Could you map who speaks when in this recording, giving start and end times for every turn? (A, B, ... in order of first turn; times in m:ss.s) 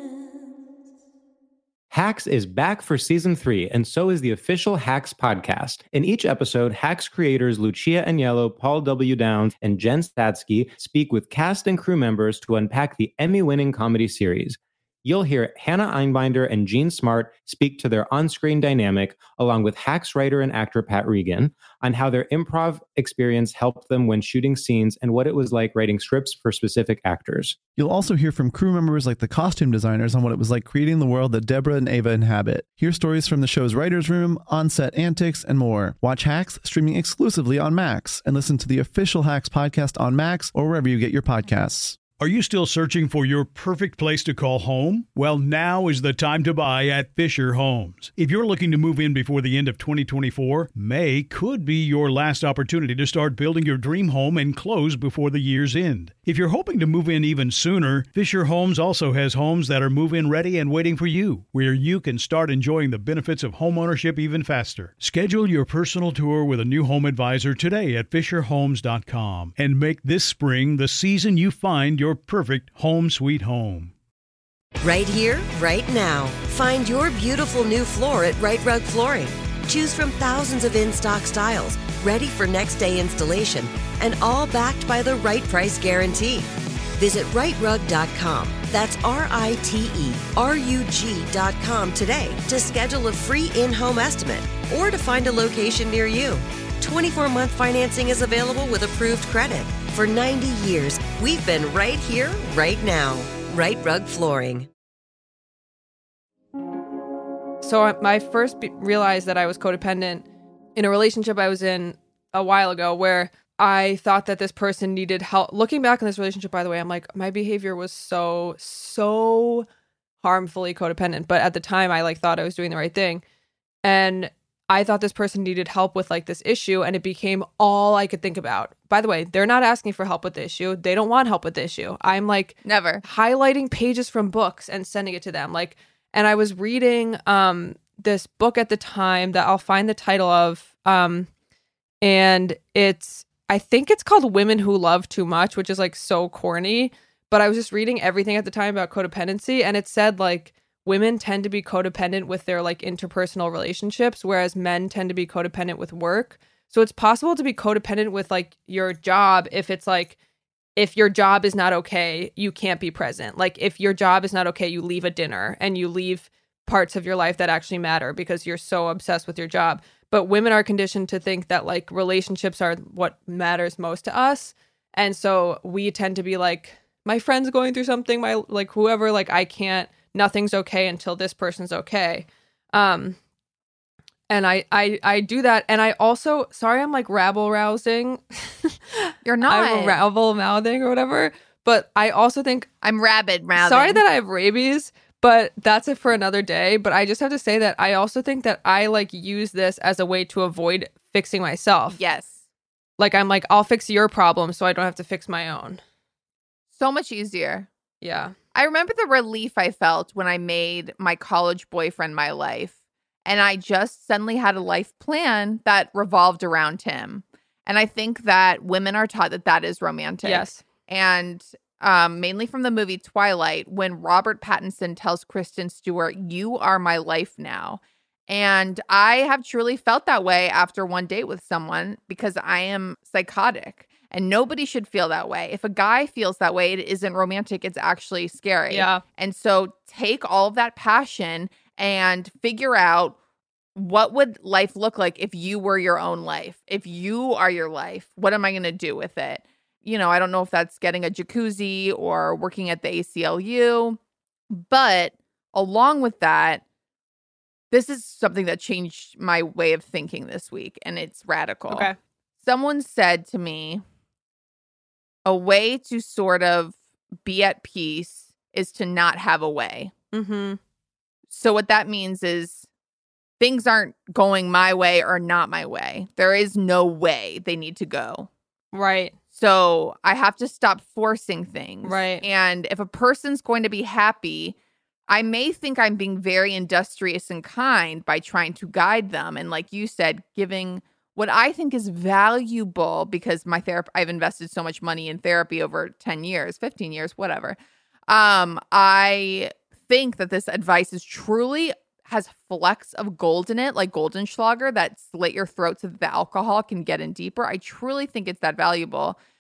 0:01.9-0:27.6 A
0:27.8-0:42.0 B
0:42.2-1:13.9 C
1:14.8-1:44.7 D
1:47.6-1:50.2 E
1:50.8-1:59.7 E
2:00.2-2:03.2 E
2:03.8-2:21.3 E
2:12.6-2:13.0 F
2:22.0-2:40.2 E
2:40.8-3:03.2 E
3:04.3-3:12.7 E
3:09.2-3:10.0 F
3:12.8-3:14.0 F
3:13.6-3:22.0 E
3:21.9-3:22.4 F
3:23.0-3:25.8 E
3:26.7-3:27.7 F
3:28.0-3:28.3 E
3:28.6-3:32.7 F
3:33.2-4:03.2 F
3:40.2-3:40.6 E
3:58.7-3:59.0 E
4:03.8-4:14.0 F
4:14.5-4:16.6 F
4:17.7-4:21.9 F
4:21.7-4:22.0 E
4:22.4-4:23.8 F
4:25.2-4:29.9 F
4:30.1-4:30.6 E
4:31.3-4:32.7 F
4:33.4-4:38.3 F
4:38.7-4:39.2 E
4:39.3-4:44.6 F
4:41.8-4:42.2 E
4:45.1-4:57.6 F
4:58.1-5:09.2 F